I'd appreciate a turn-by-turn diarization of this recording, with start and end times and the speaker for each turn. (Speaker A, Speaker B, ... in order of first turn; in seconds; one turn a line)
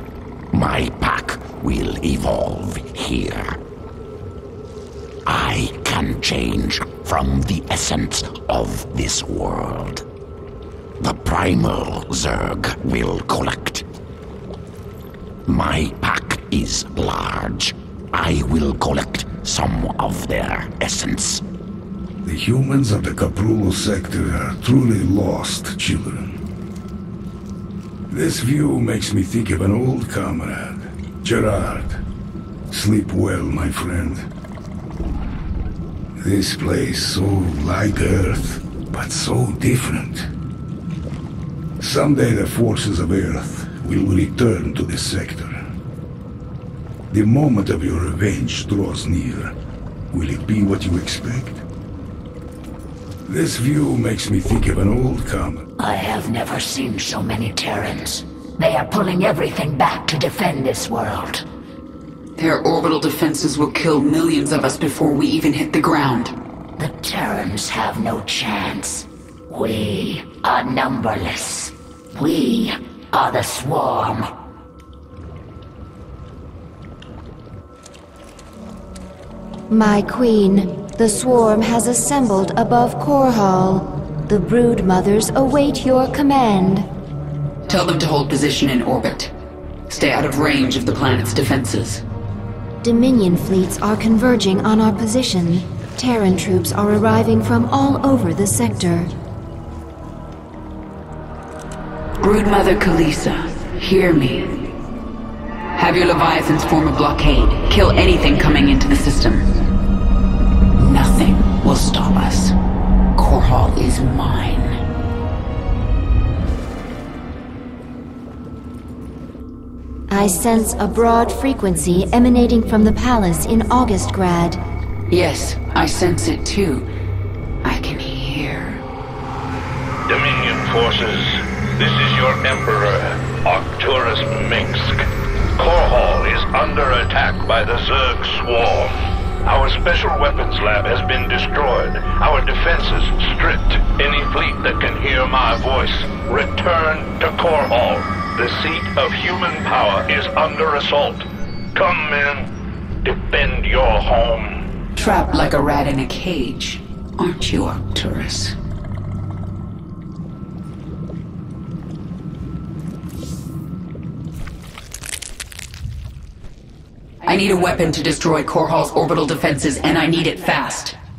Speaker A: 0.5-3.6
Speaker A: 5.2-10.1
Speaker A: 11.0-13.9
Speaker A: 15.5-21.4
Speaker B: 22.2-26.4
Speaker B: 28.1-32.0
Speaker B: 32.7-34.2
Speaker B: 36.2-40.3
Speaker B: 41.8-45.6
Speaker B: 47.1-49.5
Speaker B: 50.1-51.6
Speaker B: 53.2-55.6
Speaker C: 55.8-61.4
Speaker A: 57.6-57.9
Speaker D: 62.4-66.3
Speaker A: 66.8-69.0
Speaker C: 68.5-69.0
Speaker C: 69.5-71.6
Speaker A: 69.6-71.7
Speaker A: 72.2-74.2
Speaker C: 72.3-72.6
Speaker C: 73.2-74.1
Speaker E: 79.7-86.9
Speaker D: 87.7-89.3
Speaker D: 89.9-92.0
Speaker E: 92.8-99.1
Speaker D: 102.2-104.7
Speaker D: 105.7-109.6
Speaker D: 110.8-112.5
Speaker D: 113.2-114.8
Speaker E: 120.1-124.6
Speaker D: 125.1-126.9
Speaker D: 127.6-128.8
Speaker F: 130.1-135.1
Speaker F: 135.6-138.9
Speaker F: 139.4-152.5
Speaker F: 153.0-154.6
Speaker D: 155.0-158.6
Speaker D: 167.2-171.0